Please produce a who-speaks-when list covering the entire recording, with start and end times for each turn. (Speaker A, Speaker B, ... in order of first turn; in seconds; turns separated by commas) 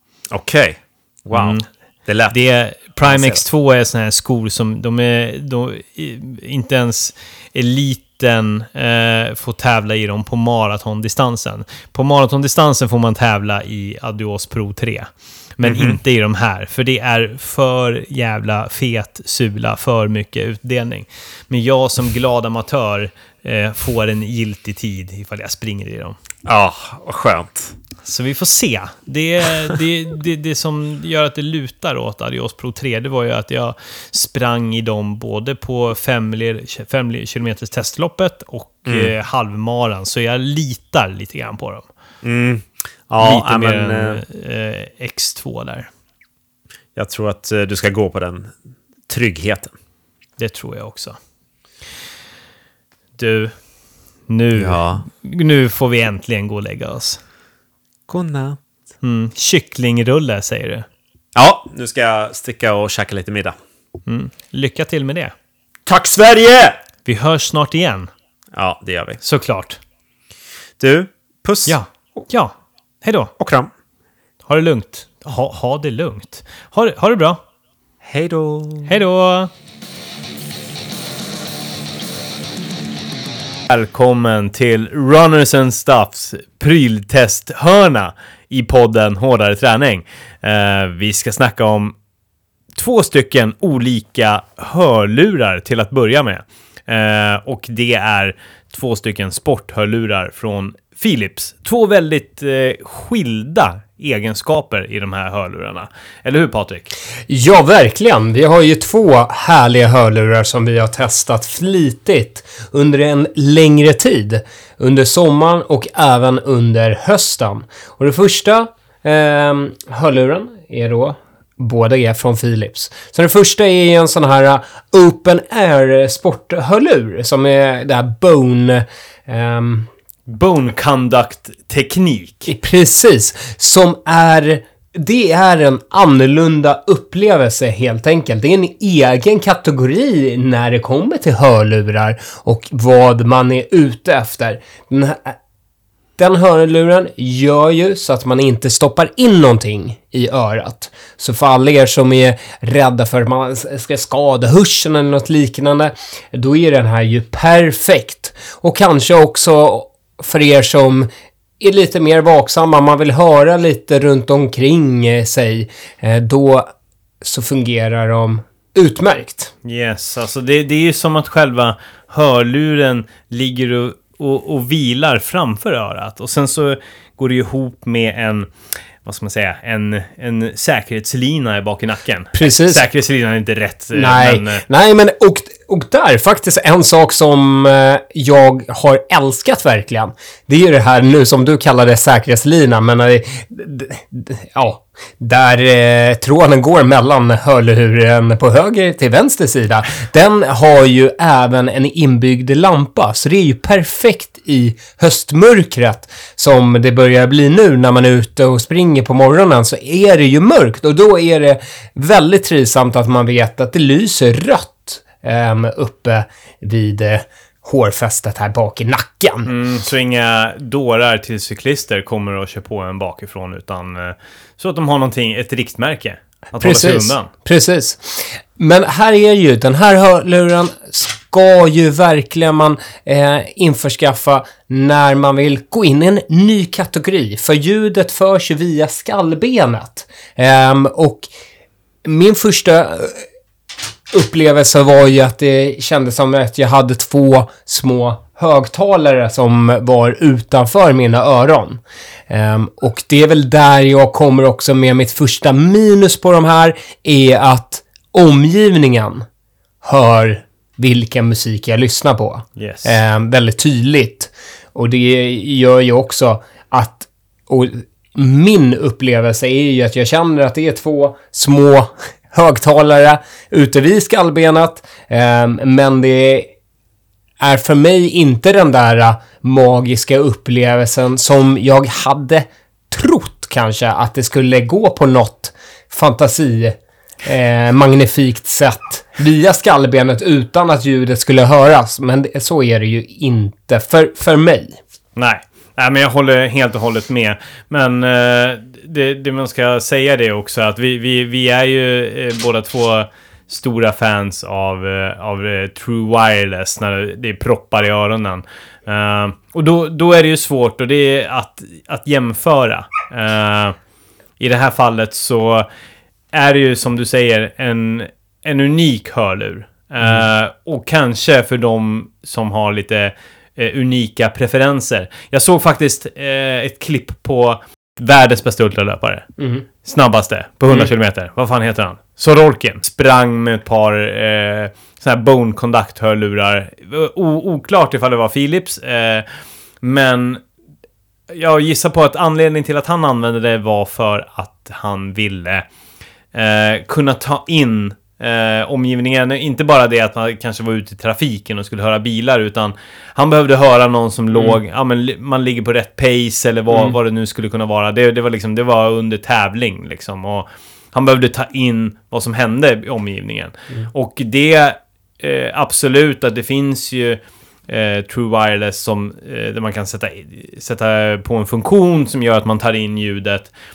Speaker A: 0.3-2.4, Speaker B: 1.3-1.6, Speaker B: 2.3-26.2, Speaker A: 3.0-3.4, Speaker A: 15.6-16.0, Speaker A: 26.4-27.7, Speaker B: 28.0-41.9, Speaker A: 38.9-39.1, Speaker A: 42.2-44.2, Speaker B: 43.2-45.9, Speaker A: 46.9-48.5, Speaker A: 49.1-49.7, Speaker B: 50.4-51.2, Speaker B: 53.2-53.5, Speaker B: 54.3-57.2, Speaker A: 54.5-55.0, Speaker A: 58.1-58.6, Speaker B: 59.0-60.9, Speaker A: 61.3-63.5, Speaker B: 64.1-65.3, Speaker A: 65.8-66.8, Speaker B: 67.0-68.1, Speaker A: 68.5-69.2, Speaker B: 69.2-69.8, Speaker A: 70.8-71.8, Speaker B: 71.7-73.3, Speaker A: 73.4-73.7, Speaker B: 74.5-77.4, Speaker A: 78.0-79.0, Speaker B: 78.9-79.5, Speaker B: 83.7-92.0, Speaker B: 92.8-106.9, Speaker C: 107.3-129.9, Speaker B: 130.3-132.5, Speaker C: 132.5-145.3, Speaker C: 146.2-161.1, Speaker C: 161.6-166.7, Speaker C: 167.2-169.5, Speaker B: 169.6-178.5, Speaker B: 179.0-184.6, Speaker C: 182.3-182.9, Speaker C: 183.9-219.5, Speaker B: 219.4-227.3, Speaker C: 226.6-241.3, Speaker C: 242.0-243.2, Speaker C: 244.1-259.2, Speaker C: 259.8-276.5, Speaker B: 262.6-262.9, Speaker C: 277.4-294.8, Speaker B: 295.1-313.8, Speaker B: 314.4-315.7, Speaker B: 316.3-329.3, Speaker C: 329.4-329.6, Speaker B: 329.8-339.3, Speaker B: 339.8-340.4, Speaker B: 341.3-345.6, Speaker B: 346.3-373.5